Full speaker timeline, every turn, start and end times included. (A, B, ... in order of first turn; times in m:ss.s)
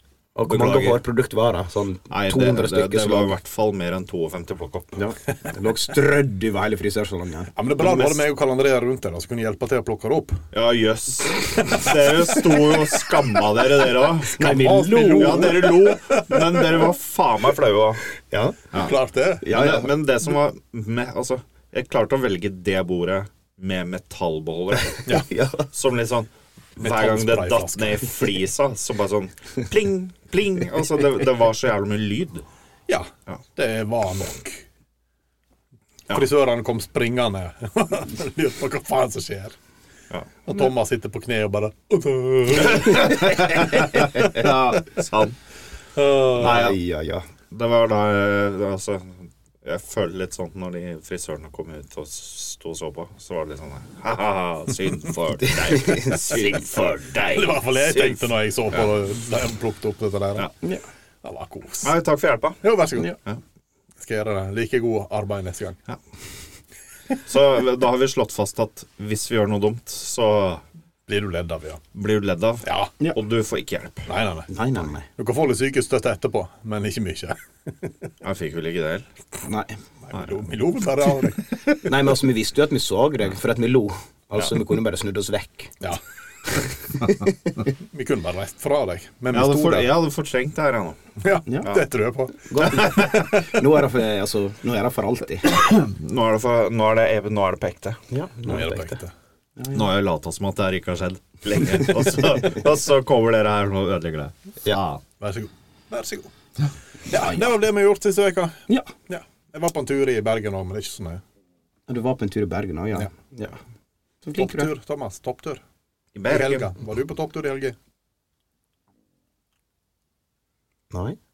0:00.4-0:03.4 A
0:00.5-0:01.0 B
0:02.1-0:05.0 B
0:05.0-0:07.5 A
0:07.6-0:10.4 C
0:07.8-0:08.1 B
0:10.5-0:14.6 B
0:14.3-0:15.7 A
0:14.4-0:16.9 C
0:15.1-0:18.0 B
0:18.3-0:18.6 A
0:18.7-0:25.1 B
0:18.7-0:19.6 C
0:19.4-0:19.9 A
0:25.1-0:25.7 A
0:25.7-0:32.5 B
0:26.8-0:28.3 C
0:32.9-0:34.6 C
0:36.1-0:39.6 C
0:40.5-0:43.4 C
0:42.6-0:45.4 B
0:46.0-0:46.7 C
0:46.4-0:46.8 B
0:46.4-0:47.3 A
0:47.5-0:58.2 B
0:55.5-0:56.7 A
0:57.3-1:00.5 C
1:01.2-1:01.9 C
1:01.8-1:02.6 B
1:02.6-1:03.2 C
1:04.0-1:05.8 C
1:07.3-1:10.6 B
1:11.1-1:11.8 C
1:11.9-1:14.1 B
1:12.6-1:12.9 C
1:14.1-1:14.5 C
1:14.5-1:15.1 A
1:15.2-1:17.9 C
1:18.2-1:19.1 B
1:19.4-1:19.8 A
1:20.0-1:21.5 C
1:21.8-1:25.8 A
1:26.9-1:27.3 A
1:27.8-1:29.9 C
1:29.3-1:31.0 B
1:31.2-1:32.8 C
1:31.5-1:31.7 A
1:32.5-1:35.6 A
1:32.6-1:33.3 B
1:35.5-1:38.0 B
1:38.1-1:39.0 A
1:38.4-1:39.1 C
1:39.6-1:39.9 A
1:39.7-1:45.0 B
1:45.2-1:46.3 C
1:47.1-1:51.2 C
1:47.2-1:47.4 A
1:51.9-1:53.6 A
1:54.2-1:54.7 A
1:54.4-1:55.6 C
1:56.2-1:56.7 B
1:56.3-1:57.8 C
2:00.9-2:01.2 A